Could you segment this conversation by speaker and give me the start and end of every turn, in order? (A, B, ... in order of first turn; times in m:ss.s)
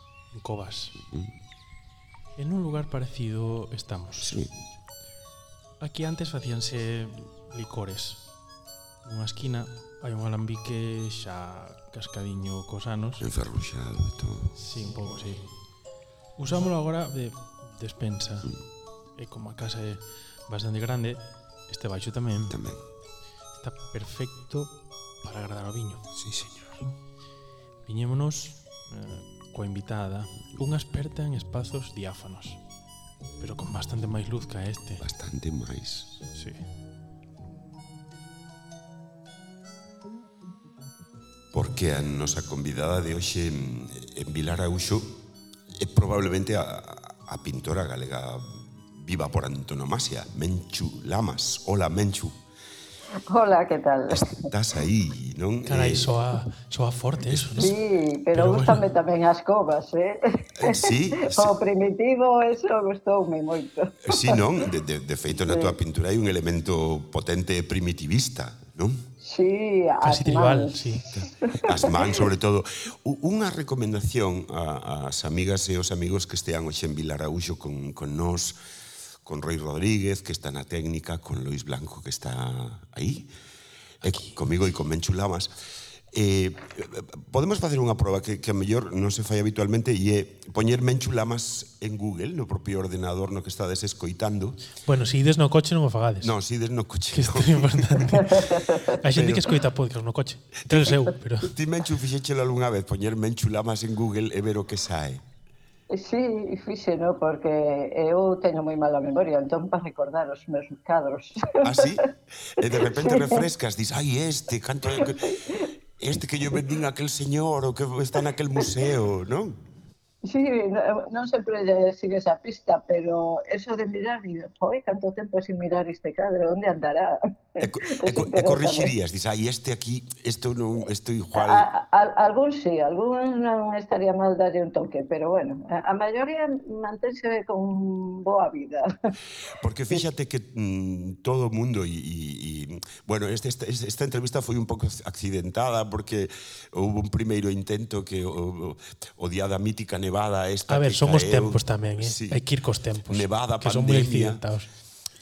0:00.3-0:01.0 A
0:01.0-0:01.3 B
0:02.4-0:04.4 A
0:04.2-0:04.6 B
0:05.8-0:08.3 A
0:09.0-0:13.2 A
0:13.2-0:14.6 B
0:14.6-0:15.6 A
0:16.4-0:18.6 A
0:19.1-0:22.6 A
0:22.5-0:22.8 B
0:23.6-0:26.1 A
0:26.2-0:26.7 B
0:27.8-0:32.7 A
0:33.4-0:35.0 A
0:35.0-0:36.1 B
0:36.3-0:36.7 A
0:41.5-0:45.0 B
0:45.8-0:52.4 B
0:53.3-0:54.5 C
0:54.1-0:56.1 B
0:55.7-0:57.8 A
0:57.2-0:57.7 B
0:57.6-1:04.4 C
0:58.3-0:58.9 A
1:00.6-1:01.5 B
1:04.1-1:09.0 B
1:05.5-1:05.7 C
1:09.2-1:12.0 C
1:10.0-1:11.0 A
1:11.1-1:18.6 B
1:19.2-1:23.3 B
1:24.0-1:25.5 B
1:26.1-1:34.7 B
1:34.8-1:36.3 A
1:36.2-1:38.4 B
1:37.1-1:38.5 A
1:38.4-1:38.9 C
1:39.0-1:41.5 A
1:39.1-1:39.6 B
1:40.7-1:45.2 B
1:45.9-1:51.6 C
1:51.6-1:55.3 B
1:53.0-1:53.3 C
1:55.3-1:55.6 C
1:56.0-1:59.6 B
2:00.2-2:08.9 C
2:07.6-2:11.7 B
2:11.3-2:18.9 C
2:19.6-2:32.4 B
2:30.7-2:34.7 A
2:33.1-2:34.4 B